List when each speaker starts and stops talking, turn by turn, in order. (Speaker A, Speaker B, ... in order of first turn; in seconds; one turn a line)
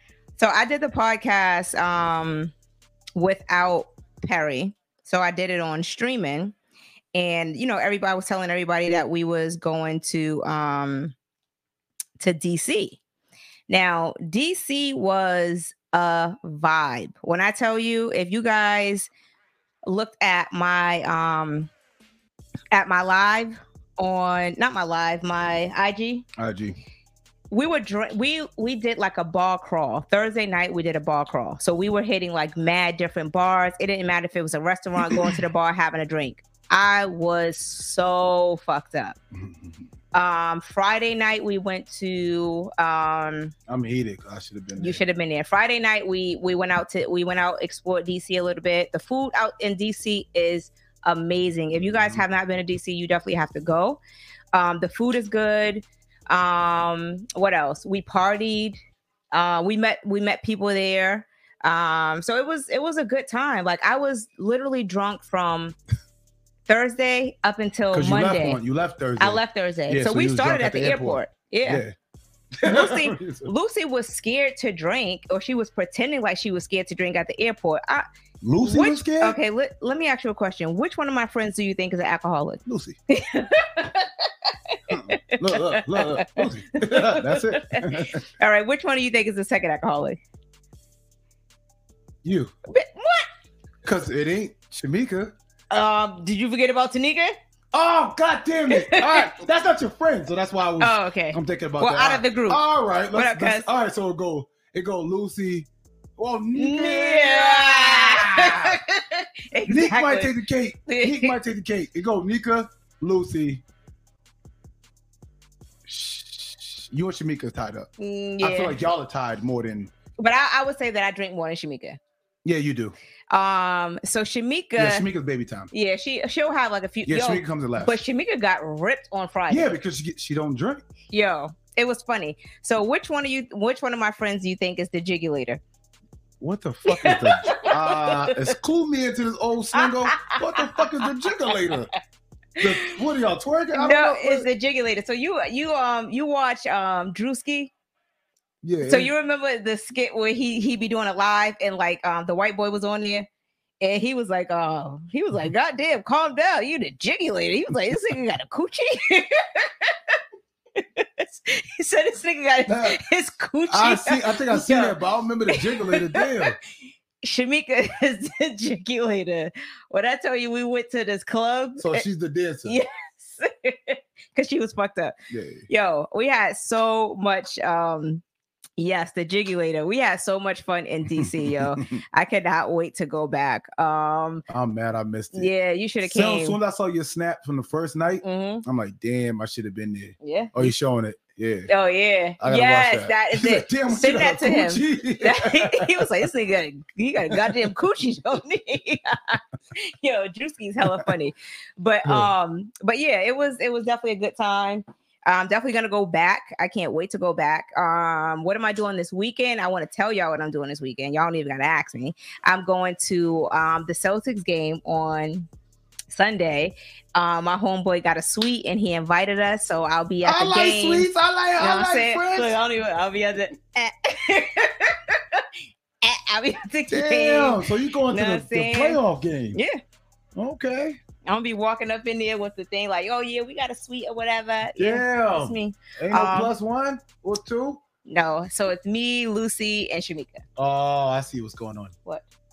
Speaker A: 0.4-2.5
Speaker A: 3.2-6.5
Speaker A: 7.1-11.1
Speaker A: 12.2-13.0
Speaker A: 13.7-19.1
Speaker A: 19.9-21.7
Speaker A: 22.7-26.2
Speaker B: 26.4-26.8
Speaker A: 27.5-39.2
Speaker B: 35.0-35.4
Speaker B: 39.3-39.8
Speaker A: 40.1-43.5
Speaker B: 43.7-45.0
Speaker A: 44.8-54.0
Speaker B: 51.8-52.2
Speaker A: 54.5-58.8
Speaker A: 59.3-65.8
Speaker A: 66.7-68.6
Speaker B: 67.9-71.9
Speaker A: 69.2-71.8
Speaker B: 72.6-73.5
Speaker A: 72.6-78.0
Speaker B: 78.4-79.4
Speaker A: 78.6-90.2
Speaker B: 82.7-83.0
Speaker B: 84.9-88.2
Speaker B: 92.2-92.5
Speaker A: 92.7-93.3
Speaker B: 93.8-95.3
Speaker A: 95.7-97.4
Speaker B: 97.7-108.8
Speaker A: 98.7-99.3
Speaker A: 100.8-102.6
Speaker A: 103.1-103.7
Speaker A: 106.5-110.3
Speaker B: 109.7-113.6
Speaker A: 110.9-111.4
Speaker B: 115.9-117.9
Speaker A: 118.0-118.8
Speaker B: 118.4-119.9
Speaker A: 120.2-122.0
Speaker B: 122.4-122.9
Speaker A: 123.3-125.1
Speaker B: 124.8-125.7
Speaker A: 125.7-129.8
Speaker B: 127.1-128.0
Speaker B: 129.5-130.8
Speaker A: 131.1-135.6
Speaker B: 136.4-141.9
Speaker A: 136.9-138.5
Speaker A: 139.7-141.7
Speaker A: 142.6-142.9
Speaker B: 142.6-144.5
Speaker A: 143.7-147.7
Speaker B: 148.6-149.1
Speaker A: 148.8-153.3
Speaker A: 153.8-160.2
Speaker A: 160.8-165.0
Speaker B: 162.7-163.0
Speaker B: 163.7-166.6
Speaker A: 165.5-166.5
Speaker A: 167.2-172.1
Speaker B: 171.8-172.8
Speaker A: 172.7-175.1
Speaker B: 175.3-175.7
Speaker A: 175.7-178.2
Speaker A: 178.8-184.4
Speaker B: 181.1-182.0
Speaker B: 184.5-191.7
Speaker A: 185.3-186.6
Speaker A: 188.2-188.6
Speaker A: 190.2-190.7
Speaker A: 191.7-215.5
Speaker B: 192.4-196.1
Speaker B: 197.3-197.7
Speaker B: 200.8-201.1
Speaker B: 202.1-202.3
Speaker A: 216.1-221.1
Speaker B: 220.2-222.6
Speaker A: 221.6-225.4
Speaker A: 226.0-229.0
Speaker B: 226.9-229.6
Speaker A: 229.5-229.8
Speaker B: 230.3-231.0
Speaker A: 231.2-236.5
Speaker B: 234.8-237.8
Speaker A: 238.1-240.4
Speaker B: 240.6-241.9